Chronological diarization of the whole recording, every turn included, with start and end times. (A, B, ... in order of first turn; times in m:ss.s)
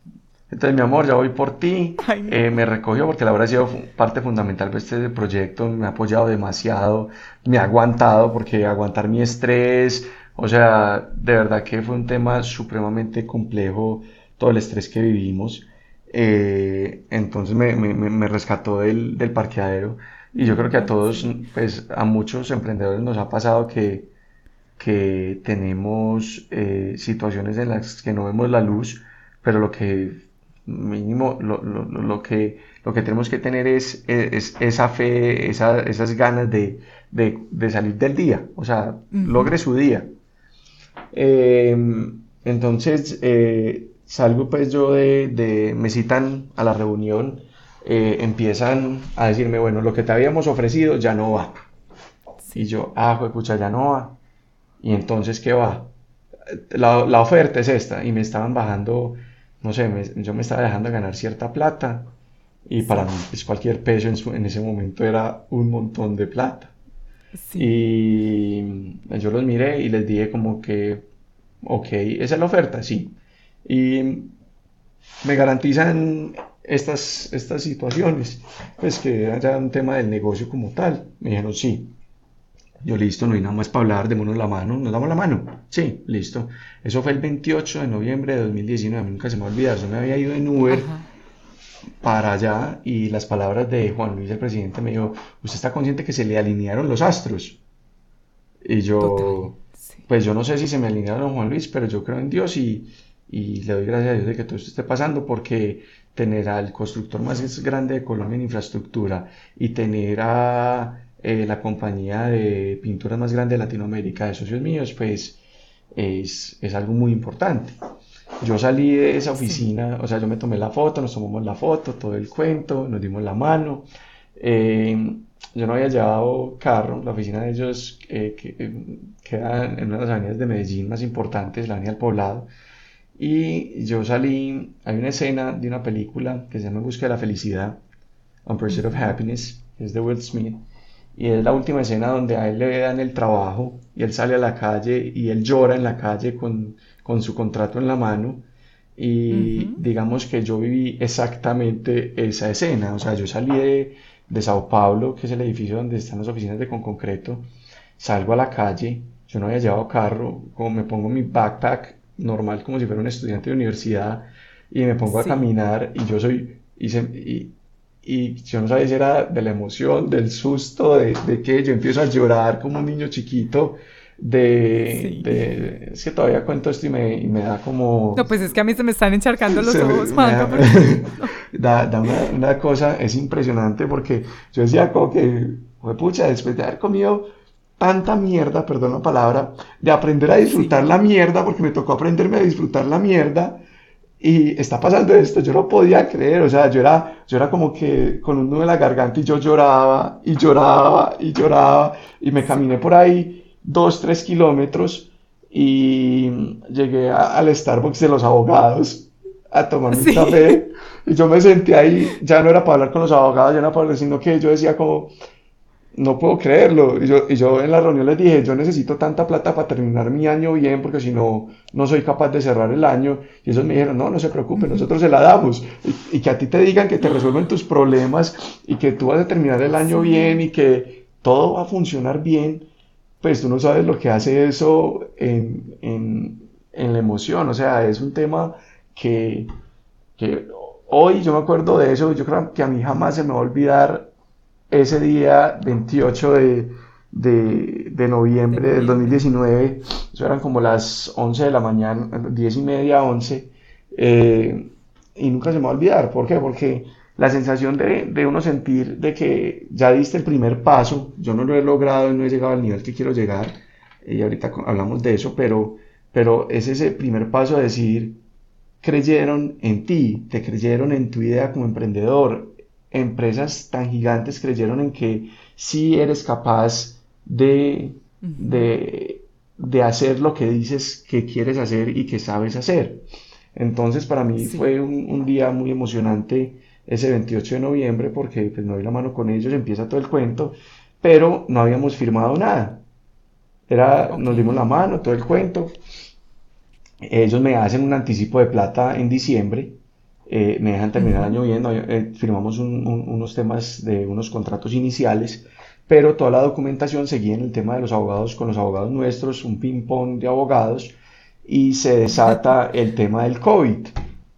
0:00.5-0:24.1 A
0:02.0-0:02.4 B
0:20.3-0:21.3 B
0:24.8-0:40.1 A
0:39.1-0:39.5 B
0:41.1-0:51.6 A
0:52.5-0:54.2 A
0:54.8-0:55.9 A
0:56.5-1:02.1 A
1:02.6-1:06.7 A
1:02.8-1:03.1 B
1:07.3-1:07.7 B
1:07.5-1:11.1 A
1:11.6-1:14.3 A
1:15.2-1:21.9 A
1:22.8-1:30.9 A
1:30.7-1:31.0 B
1:32.0-1:37.6 A
1:38.6-1:39.6 A
1:39.0-1:39.7 B
1:40.1-1:55.4 A
1:55.9-1:57.7 A
1:58.4-2:12.5 A
1:59.4-1:59.6 B
2:13.2-2:17.8 A
2:18.4-2:20.6 A
2:18.7-2:19.1 B
2:21.2-2:28.4 A
2:29.0-2:58.3 A
2:29.3-2:29.8 B
2:45.1-2:45.5 B
2:54.8-2:55.3 B
2:58.2-3:01.3 B
2:59.5-3:07.3 A
3:07.8-3:13.6 A
3:10.4-3:10.8 B
3:14.2-3:35.1 A
3:29.9-3:30.6 B
3:35.9-3:52.7 A
3:44.5-3:44.9 B
3:49.7-3:50.4 B
3:53.2-3:59.5 A
4:00.2-4:04.1 A
4:04.7-4:28.2 A
4:08.5-4:09.3 B
4:28.8-4:52.8 A
4:38.2-4:38.7 B
4:44.4-4:44.7 B
4:53.7-4:55.7 A
4:54.0-4:54.6 B
4:57.0-5:13.9 A
5:01.0-5:01.4 B